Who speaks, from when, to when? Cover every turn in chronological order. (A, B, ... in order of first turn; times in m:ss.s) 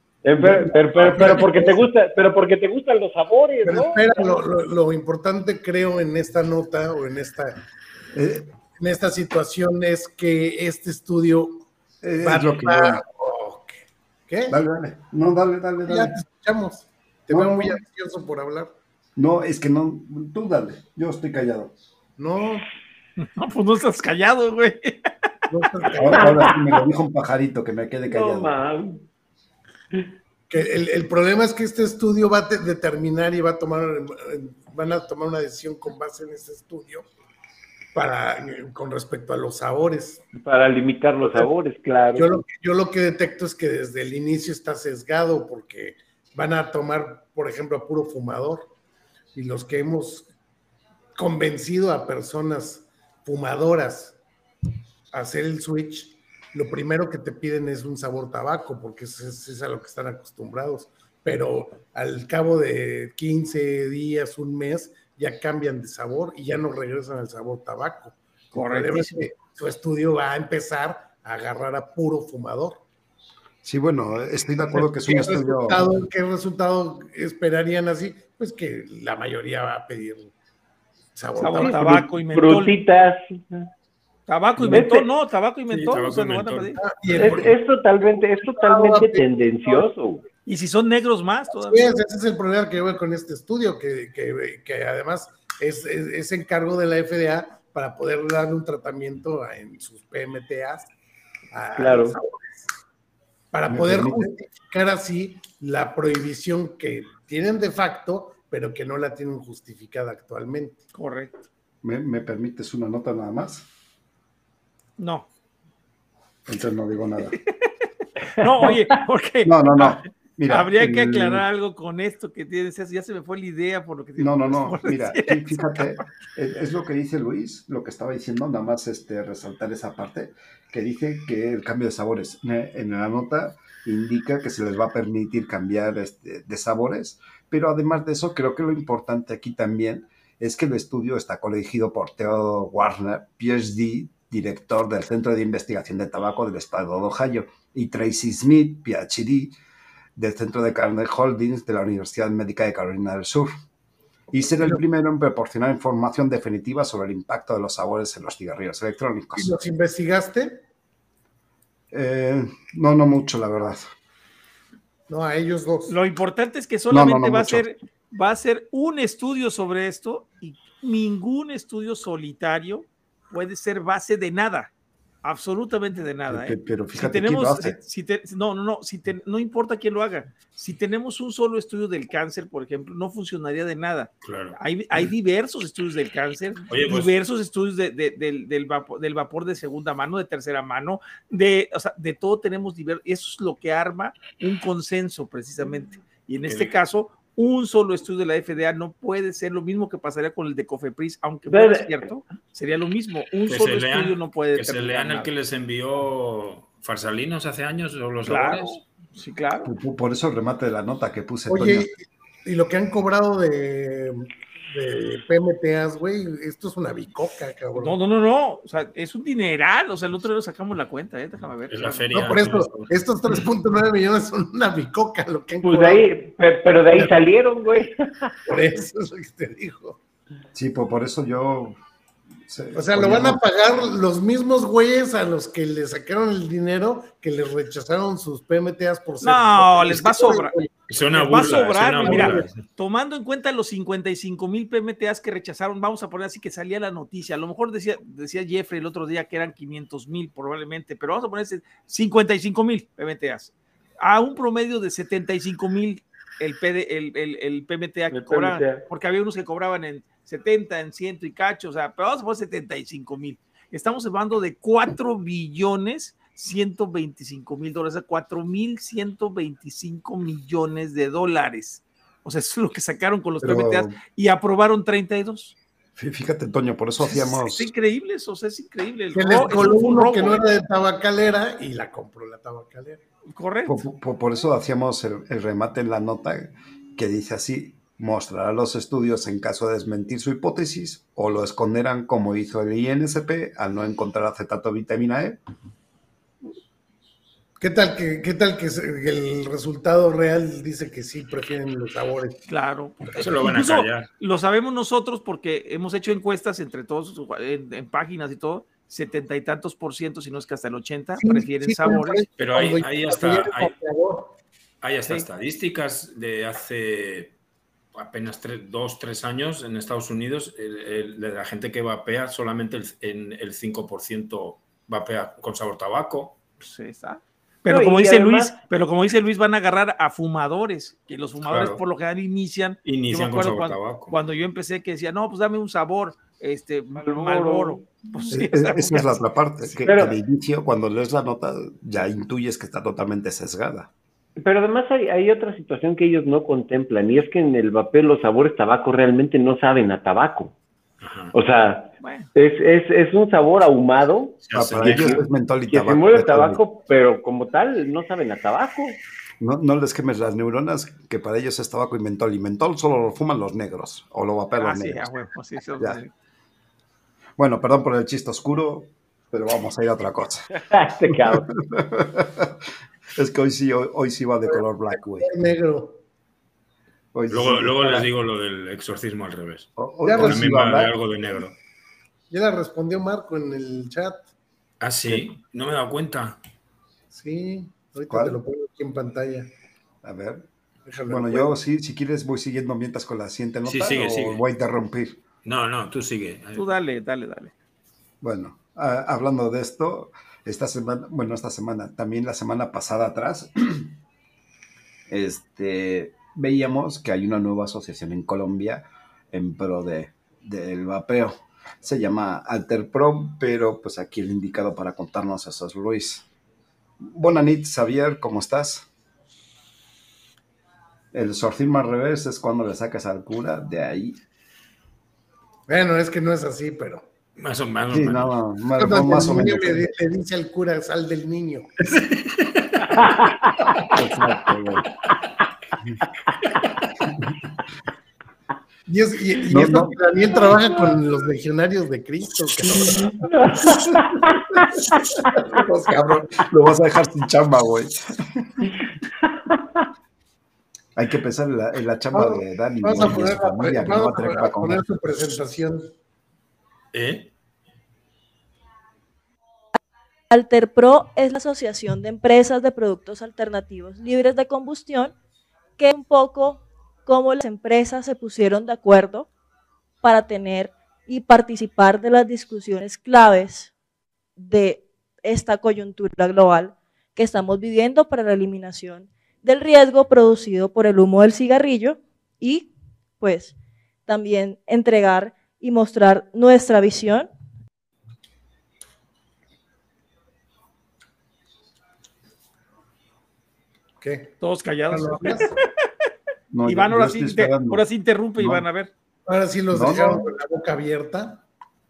0:00.2-0:04.4 A
0:00.4-0:01.8 B
0:01.0-0:01.4 C
0:03.6-0:07.6 B
0:08.1-0:08.5 C
0:08.8-0:11.6 B
0:12.0-0:13.0 C
0:12.2-0:13.8 B
0:14.3-0:14.6 B
0:14.5-0:16.1 C
0:15.9-0:18.8 B
0:17.3-0:17.8 C
0:19.2-0:21.7 C
0:22.2-0:22.7 B
0:23.2-0:25.1 D
0:25.5-0:26.5 B
0:26.0-0:28.5 C
0:26.2-0:26.6 A
0:28.1-0:29.0 A
0:30.5-0:37.1 B
0:38.0-0:40.3 B
0:40.4-0:42.3 A
0:42.2-0:48.7 B
0:49.4-0:50.3 B
0:51.2-0:54.2 B
0:55.1-1:12.8 B
1:08.5-1:09.2 D
1:13.6-1:15.9 C
1:14.7-1:20.3 B
1:21.2-1:22.0 B
1:21.4-1:22.8 D
1:21.6-1:23.7 A
1:24.3-1:26.8 D
1:24.7-1:25.1 A
1:25.7-1:27.3 E
1:26.8-1:27.6 B
1:27.1-1:30.2 A
1:28.4-1:29.9 B
1:30.5-1:31.9 D
1:31.5-1:40.9 B
1:41.5-1:42.6 B
1:41.8-1:42.2 A
1:43.5-1:50.8 B
1:43.7-1:44.3 C
1:50.9-1:51.4 D
1:51.8-1:53.7 C
1:55.0-1:55.3 D
1:56.5-1:57.4 C
1:58.4-2:06.0 D
1:58.4-1:58.8 A
1:59.4-2:01.4 C
2:04.2-2:29.5 C
2:30.2-2:33.5 C
2:34.3-2:39.6 C
2:34.3-2:34.8 B
2:39.4-2:40.6 B
2:41.9-2:43.9 C
2:45.1-2:46.0 B
2:45.9-2:54.7 D
2:46.9-2:47.6 C
2:55.2-3:25.3 D
2:56.3-2:57.8 C
3:04.2-3:04.6 E
3:06.7-3:07.1 E
3:16.5-3:16.7 E
3:21.5-3:22.0 A
3:23.5-3:28.8 E
3:28.3-3:29.7 D
3:29.6-3:31.9 C
3:31.5-3:38.0 B
3:37.8-3:42.1 D
3:41.7-3:43.4 E
3:42.1-3:46.1 B
3:45.6-3:48.3 A
3:48.5-3:50.0 B
3:50.5-3:51.8 C
3:52.5-3:53.4 C
3:52.7-4:02.5 B
3:59.2-4:00.5 D
4:00.9-4:02.6 E
4:01.1-4:35.6 D
4:18.1-4:18.9 A
4:33.4-4:34.0 C
4:36.0-4:37.7 C
4:37.0-4:40.4 D
4:39.2-4:43.0 B
4:43.3-4:43.8 D
4:43.7-4:55.4 C
4:57.6-5:02.4 B
5:02.5-5:12.2 D
5:03.2-5:04.1 E
5:11.2-5:14.4 B
5:12.4-5:13.7 E
5:14.8-5:17.4 E
5:17.9-5:26.4 E
5:26.6-5:39.2 D
5:27.7-5:28.6 A
5:31.4-5:31.8 E
5:32.8-5:34.2 E
5:37.0-5:37.9 A
5:38.3-5:43.9 C
5:39.8-5:40.2 A
5:44.4-5:50.6 A
5:51.0-5:51.3 E
5:51.3-5:54.4 A
5:52.0-5:52.3 D
5:54.4-5:55.2 E
5:54.6-5:56.6 C
5:55.7-5:59.0 A
5:59.4-6:05.1 C
6:04.6-6:06.1 D
6:07.4-6:12.6 C
6:10.5-6:11.5 A
6:13.2-6:15.3 C
6:14.5-6:16.0 B
6:17.1-6:18.1 C
6:17.3-6:21.6 E
6:19.8-6:20.9 C
6:20.0-6:20.5 B
6:22.3-6:24.2 B
6:24.8-6:26.4 E
6:27.1-6:29.5 B
6:28.1-6:28.4 C
6:30.0-6:30.5 C
6:30.9-6:31.5 B
6:31.1-6:35.2 C
6:33.6-6:34.4 E
6:35.4-6:36.7 E
6:36.6-6:37.5 D
6:38.2-6:43.9 C
6:45.1-6:56.3 C
6:57.0-6:58.9 C
7:01.1-7:04.2 C
7:05.7-7:07.0 B
7:07.4-7:08.3 E
7:07.9-7:09.9 C
7:08.8-7:11.9 B
7:11.9-7:13.3 E
7:13.8-7:14.9 C
7:18.9-7:24.0 B
7:19.5-7:20.0 C
7:23.2-7:24.7 A
7:23.6-7:24.0 C
7:24.9-7:26.5 B
7:26.4-7:28.7 C
7:29.2-7:29.9 A
7:31.0-7:34.8 C
7:32.1-7:35.9 B
7:36.9-7:37.3 E
7:40.3-7:45.1 F
7:45.8-7:49.3 F
7:50.0-7:53.7 F
7:54.4-8:02.7 F
8:03.2-8:03.5 F
8:04.1-8:07.3 F
8:14.0-8:14.3 B
8:14.4-8:15.6 D
8:14.9-8:15.5 B
8:16.5-8:17.8 C
8:16.6-8:18.9 D
8:18.4-8:18.6 C
8:19.3-8:21.4 B
8:19.7-8:20.3 C